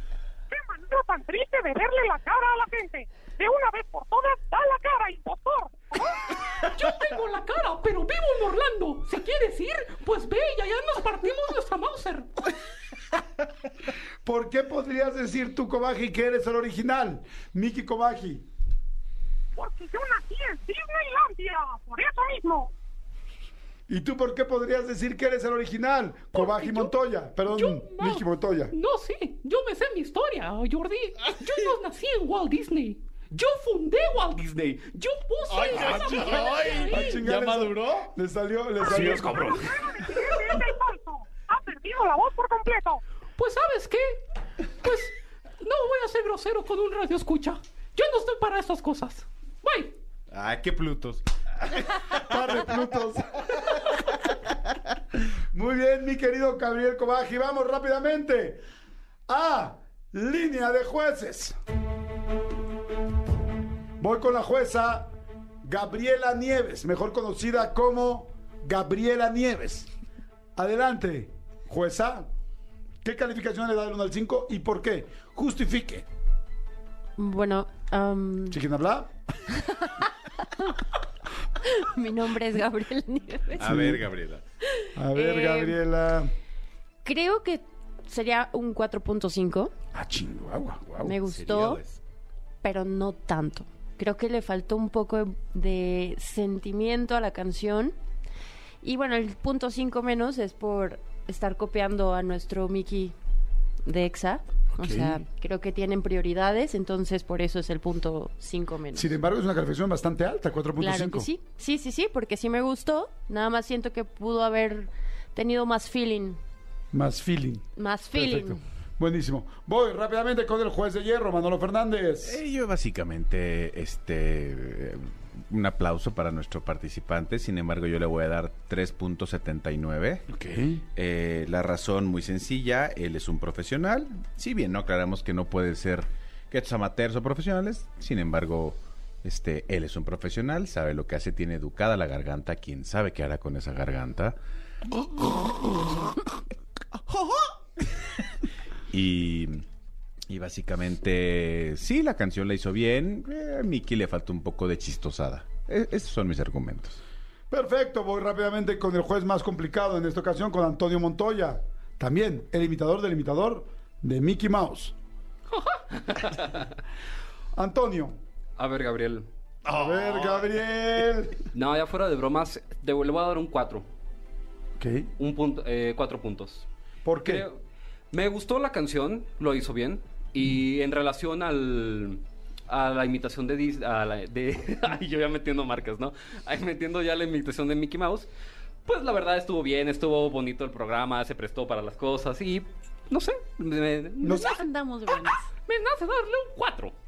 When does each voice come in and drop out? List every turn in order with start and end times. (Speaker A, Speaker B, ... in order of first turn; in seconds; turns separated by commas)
Speaker A: 0.5-6.2, Speaker B: 6.6-12.4, Speaker C: 14.2-18.5, Speaker A: 19.6-22.7, Speaker C: 23.9-28.7, Speaker B: 26.3-26.9, Speaker B: 27.4-37.2, Speaker C: 34.3-34.9, Speaker D: 35.7-38.0, Speaker C: 35.9-36.2, Speaker C: 36.8-39.6, Speaker D: 39.1-39.6, Speaker A: 39.6-43.0, Speaker B: 43.4-44.2, Speaker B: 44.8-49.9, Speaker D: 50.3-51.2, Speaker C: 52.1-54.1, Speaker C: 55.5-58.6, Speaker C: 59.3-61.6, Speaker C: 64.0-65.1, Speaker C: 65.6-69.9, Speaker C: 70.6-72.3, Speaker C: 73.0-76.1, Speaker E: 77.2-78.6, Speaker C: 78.5-79.1, Speaker E: 79.6-79.9, Speaker E: 81.8-83.8, Speaker D: 83.6-84.4, Speaker C: 83.6-84.0, Speaker C: 85.0-86.3, Speaker E: 85.2-85.7, Speaker E: 87.0-89.7, Speaker C: 89.9-91.2, Speaker D: 91.0-92.0, Speaker E: 91.0-91.8, Speaker E: 92.6-98.0, Speaker E: 98.8-103.1, Speaker E: 103.9-109.2, Speaker C: 104.8-105.2, Speaker C: 108.9-111.3, Speaker E: 110.8-116.4, Speaker C: 116.9-122.4, Speaker E: 117.8-118.6, Speaker D: 122.2-130.3, Speaker C: 130.3-130.8, Speaker D: 131.0-144.4, Speaker D: 148.9-149.7, Speaker D: 150.3-157.0, Speaker C: 157.5-164.9, Speaker B: 165.6-166.4, Speaker C: 167.6-168.2, Speaker B: 168.6-169.3, Speaker C: 169.7-171.4, Speaker B: 171.5-173.8, Speaker C: 174.8-175.1, Speaker B: 175.2-176.6, Speaker C: 177.1-177.4, Speaker B: 177.2-177.6, Speaker B: 178.1-188.3, Speaker B: 188.9-194.5, Speaker C: 194.2-194.6, Speaker E: 194.4-195.5, Speaker B: 195.2-196.9